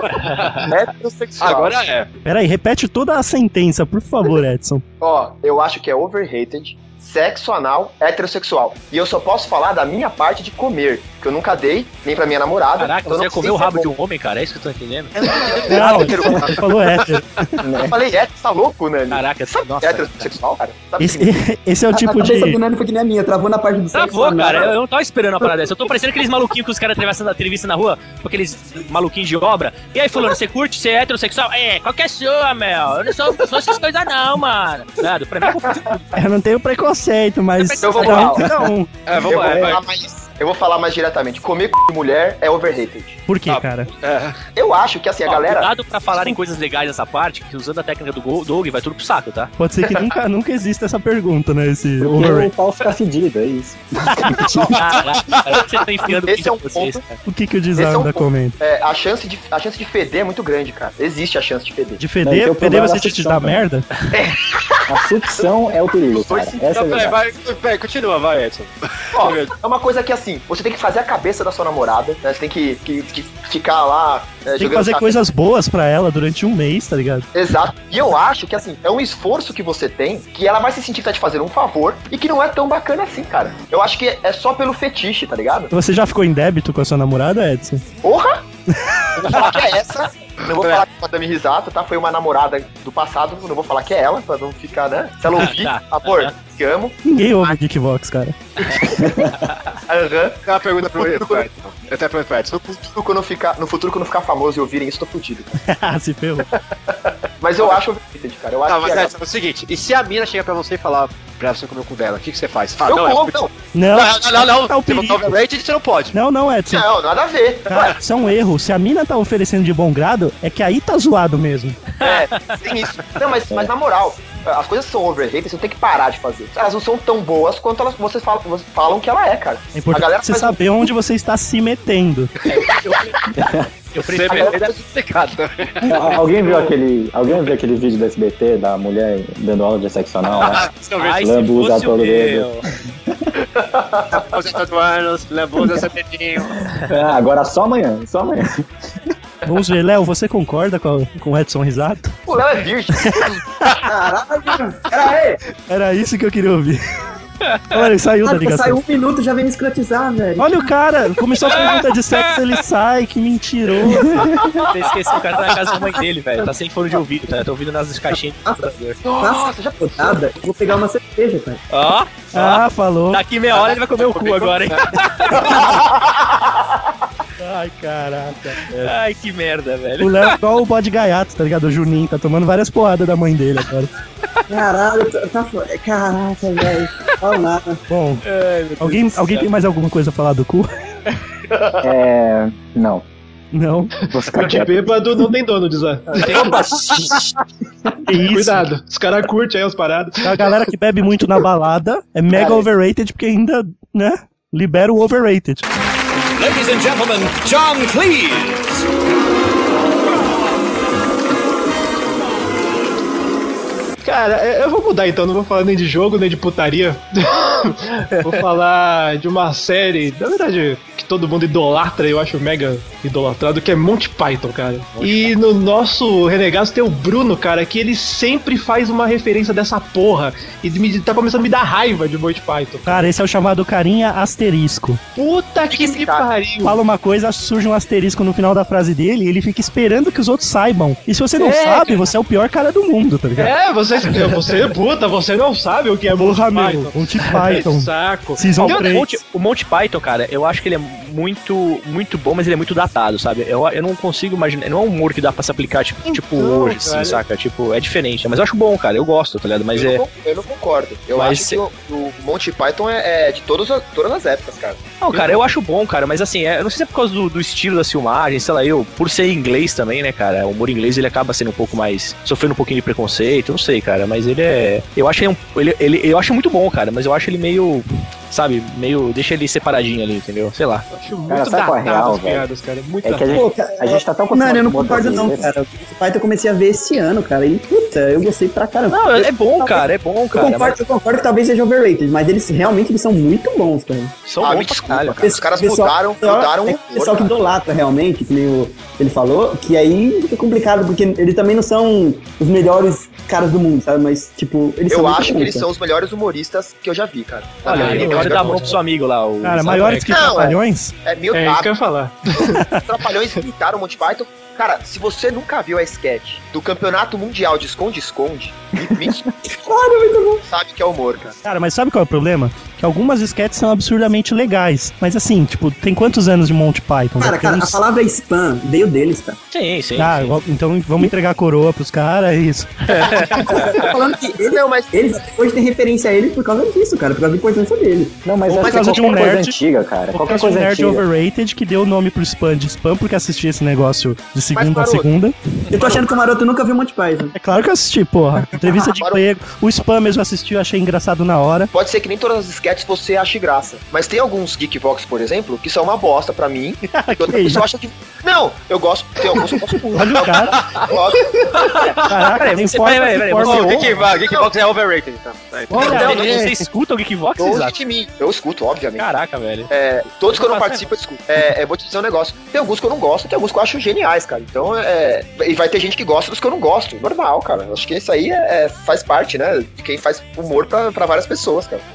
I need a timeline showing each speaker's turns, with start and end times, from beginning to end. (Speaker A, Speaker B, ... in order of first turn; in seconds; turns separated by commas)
Speaker A: 0.6-1.8, Speaker B: 1.4-2.1, Speaker C: 2.2-4.8, Speaker A: 5.0-13.9, Speaker D: 12.8-15.3, Speaker A: 15.3-16.6, Speaker C: 15.7-17.6, Speaker E: 17.6-17.9, Speaker A: 17.8-21.3, Speaker D: 19.1-20.3, Speaker C: 21.0-22.6, Speaker F: 21.9-24.8, Speaker D: 23.9-36.1, Speaker C: 36.1-39.0, Speaker D: 37.6-38.4, Speaker A: 37.8-38.5, Speaker B: 39.1-39.8, Speaker A: 39.2-43.2, Speaker D: 39.3-39.7, Speaker C: 43.3-43.9, Speaker B: 43.5-44.4, Speaker A: 44.5-46.4, Speaker D: 45.2-49.5, Speaker C: 49.6-52.5, Speaker E: 52.0-54.7, Speaker D: 54.7-57.2, Speaker A: 56.1-57.0, Speaker C: 57.2-58.5, Speaker A: 57.7-62.0, Speaker C: 62.0-63.9, Speaker E: 62.2-63.6, Speaker A: 64.1-64.7, Speaker E: 64.9-67.2, Speaker B: 66.3-69.5, Speaker A: 69.1-75.2, Speaker C: 74.6-77.3, Speaker A: 77.3-85.7, Speaker C: 85.7-87.8, Speaker A: 88.0-88.4, Speaker C: 88.7-89.2, Speaker A: 89.2-97.6, Speaker B: 90.5-90.8, Speaker D: 95.3-96.3, Speaker C: 97.0-98.3, Speaker A: 99.9-100.4, Speaker B: 100.5-102.9, Speaker A: 100.9-101.5, Speaker A: 102.9-105.5, Speaker C: 105.7-106.5, Speaker A: 106.5-109.1, Speaker B: 108.7-116.2, Speaker A: 112.8-113.5, Speaker C: 113.7-115.3, Speaker C: 116.1-116.9, Speaker A: 116.7-118.0, Speaker C: 117.7-121.8, Speaker A: 122.0-130.9, Speaker D: 122.0-122.6, Speaker C: 129.7-132.3, Speaker D: 132.5-133.2, Speaker E: 133.3-133.7, Speaker D: 133.9-134.7, Speaker B: 134.0-136.7, Speaker A: 134.3-134.5, Speaker E: 135.8-142.5, Speaker B: 140.4-141.3, Speaker D: 141.0-142.6, Speaker A: 143.6-144.3, Speaker B: 144.2-146.6, Speaker E: 146.8-148.7, Speaker C: 149.4-152.2, Speaker A: 152.3-153.4, Speaker C: 153.0-153.8, Speaker F: 153.8-155.4, Speaker C: 155.7-156.8, Speaker C: 157.7-158.8, Speaker F: 158.2-160.7, Speaker C: 160.4-164.4, Speaker D: 161.5-162.4, Speaker D: 164.6-169.0, Speaker F: 165.9-166.5, Speaker F: 168.1-171.6, Speaker A: 169.0-170.2, Speaker D: 171.7-175.6, Speaker C: 172.3-173.2, Speaker B: 174.0-174.8, Speaker A: 175.4-176.0, Speaker C: 177.4-178.9, Speaker D: 178.7-180.4, Speaker C: 180.0-183.9, Speaker F: 184.5-187.8, Speaker C: 187.9-188.2, Speaker D: 188.3-189.5, Speaker C: 188.8-190.7, Speaker E: 191.8-193.1, Speaker C: 193.5-193.9, Speaker G: 194.0-196.2, Speaker E: 194.1-195.2, Speaker E: 196.2-197.3, Speaker C: 198.1-198.7, Speaker G: 198.3-200.4, Speaker C: 200.2-205.7, Speaker A: 202.3-202.6, Speaker H: 206.4-208.8, Speaker G: 214.0-233.1, Speaker D: 224.9-225.3, Speaker C: 232.8-235.0, Speaker G: 235.1-236.8, Speaker A: 235.7-236.3, Speaker C: 236.6-243.6, Speaker G: 241.4-241.9, Speaker G: 243.3-248.9, Speaker C: 246.1-249.2, Speaker D: 248.6-260.0, Speaker G: 256.1-257.2, Speaker A: 259.7-264.8, Speaker D: 261.1-261.6, Speaker D: 265.0-280.9, Speaker G: 265.1-265.4, Speaker G: 280.9-283.4, Speaker E: 281.3-282.5, Speaker E: 283.0-285.5, Speaker F: 283.3-294.1, Speaker D: 288.9-290.8, Speaker D: 294.3-295.4, Speaker A: 294.4-297.4, Speaker F: 295.2-305.7, Speaker A: 304.9-308.7, Speaker D: 307.6-310.0, Speaker G: 307.7-308.8, Speaker C: 309.4-310.9, Speaker G: 309.7-310.2, Speaker A: 310.1-311.8, Speaker G: 311.3-312.6, Speaker C: 312.5-312.8, Speaker A: 312.9-319.2, Speaker F: 319.6-320.4, Speaker A: 320.5-321.4, Speaker C: 321.4-327.8, Speaker F: 327.2-329.4, Speaker D: 329.5-330.3, Speaker C: 330.0-333.4, Speaker D: 332.9-333.6, Speaker A: 333.4-335.0, Speaker F: 333.6-338.2, Speaker E: 338.2-341.0, Speaker C: 338.5-339.5, Speaker A: 338.6-339.1, Speaker C: 340.1-345.3, Speaker A: 344.5-345.1, Speaker F: 345.7-347.3, Speaker A: 345.7-346.0, Speaker C: 347.3-351.7, Speaker A: 348.9-349.2, Speaker A: 351.7-361.9, Speaker C: 356.9-357.6, Speaker C: 359.9-360.6, Speaker B: 360.4-360.9, Speaker C: 362.1-363.9, Speaker D: 362.3-363.9, Speaker B: 363.4-366.2, Speaker A: 363.5-364.5, Speaker C: 365.7-366.6, Speaker D: 365.7-367.8, Speaker A: 365.8-366.5, Speaker A: 367.4-369.1, Speaker D: 369.0-369.7, Speaker A: 369.7-381.9, Speaker D: 370.3-370.9